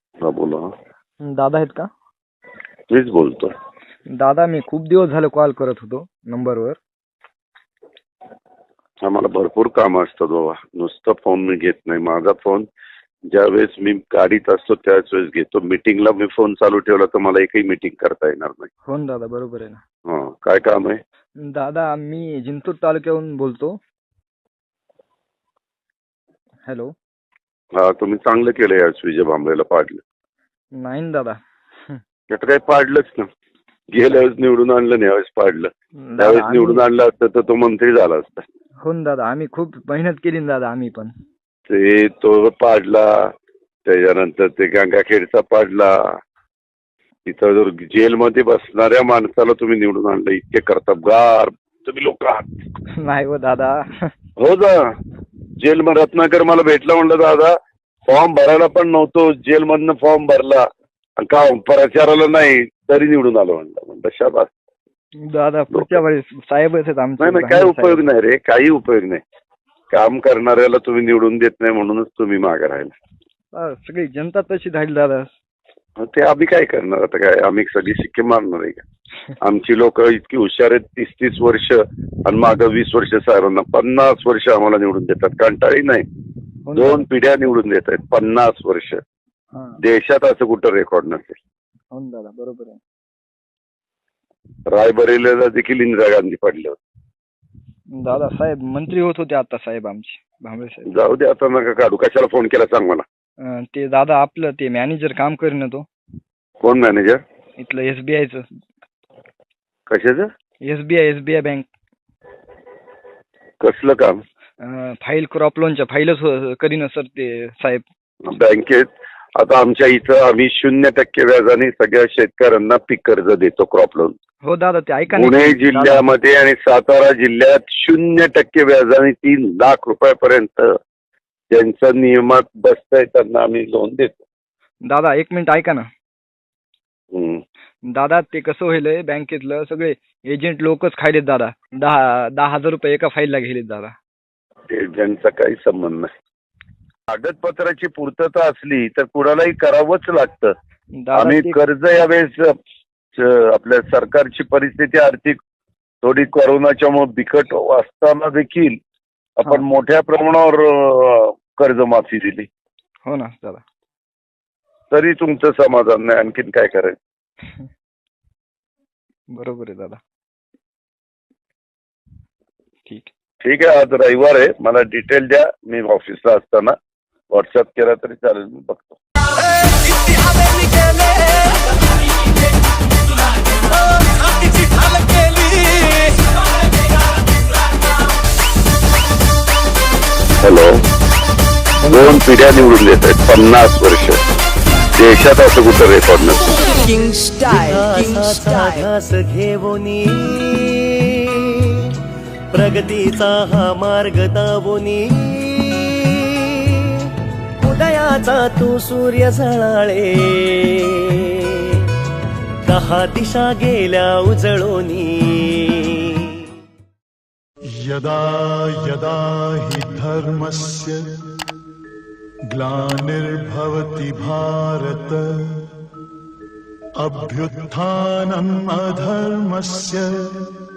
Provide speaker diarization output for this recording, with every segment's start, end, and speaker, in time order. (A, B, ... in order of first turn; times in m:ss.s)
0:00.2-0:00.6 A
0:01.2-0:01.9 B
0:02.9-0:03.5 A
0:04.1-0:06.8 B
0:09.0-0:12.6 A
0:13.3-0:18.7 A
0:18.8-0:19.8 B
0:20.1-0:21.0 A
0:21.4-0:23.8 B
0:26.7-0:26.9 B
0:27.8-0:30.0 A
0:30.8-0:31.4 B
0:32.3-0:33.3 A
0:33.9-0:38.4 A
0:36.0-0:36.8 B
0:38.8-0:41.1 B
0:41.7-0:43.1 A
0:43.8-0:45.9 A
0:47.3-0:52.4 A
0:53.0-0:54.1 B
0:54.4-0:54.8 A
0:55.6-0:57.5 A
0:58.1-1:00.6 A
1:01.2-1:04.5 A
1:05.2-1:08.0 B
1:07.2-1:09.2 A
1:09.9-1:12.9 A
1:13.5-1:15.3 B
1:16.0-1:18.8 A
1:19.4-1:26.0 A
1:26.6-1:27.0 B
1:26.8-1:29.0 A
1:29.5-1:29.8 B
1:29.8-1:31.4 A
1:31.9-1:32.8 B
1:34.7-1:36.8 A
1:38.0-1:40.9 B
1:40.9-1:43.0 A
1:43.4-1:45.8 B
1:46.6-1:47.2 A
1:47.6-1:48.4 B
1:49.9-1:50.3 A
1:50.6-1:51.7 B
1:53.6-1:54.2 A
1:54.6-1:57.8 B
1:58.3-2:04.1 A
2:04.4-2:06.0 B
2:05.1-2:10.7 A
2:11.5-2:14.2 A
2:14.8-2:15.9 B
2:17.1-2:17.4 A
2:17.9-2:23.9 B
2:24.7-2:26.1 A
2:27.1-2:30.5 A
2:31.0-2:31.6 B
2:31.1-2:32.5 A
2:33.2-2:35.4 A
2:36.0-2:38.8 A
2:39.4-2:42.5 A
2:43.0-2:43.6 B
2:44.9-2:47.0 A
2:49.3-2:50.0 B
2:53.4-2:56.7 A
2:57.3-2:59.0 A
2:59.7-3:01.5 C
3:03.9-3:06.1 C
3:10.4-3:10.8 A
3:11.8-3:14.2 A
3:14.9-3:16.6 A
3:16.6-3:18.8 C
3:17.5-3:21.9 D
3:22.5-3:31.9 D
3:32.6-3:36.5 D
3:37.8-3:41.0 E
3:42.5-3:45.7 E
3:47.0-3:50.3 E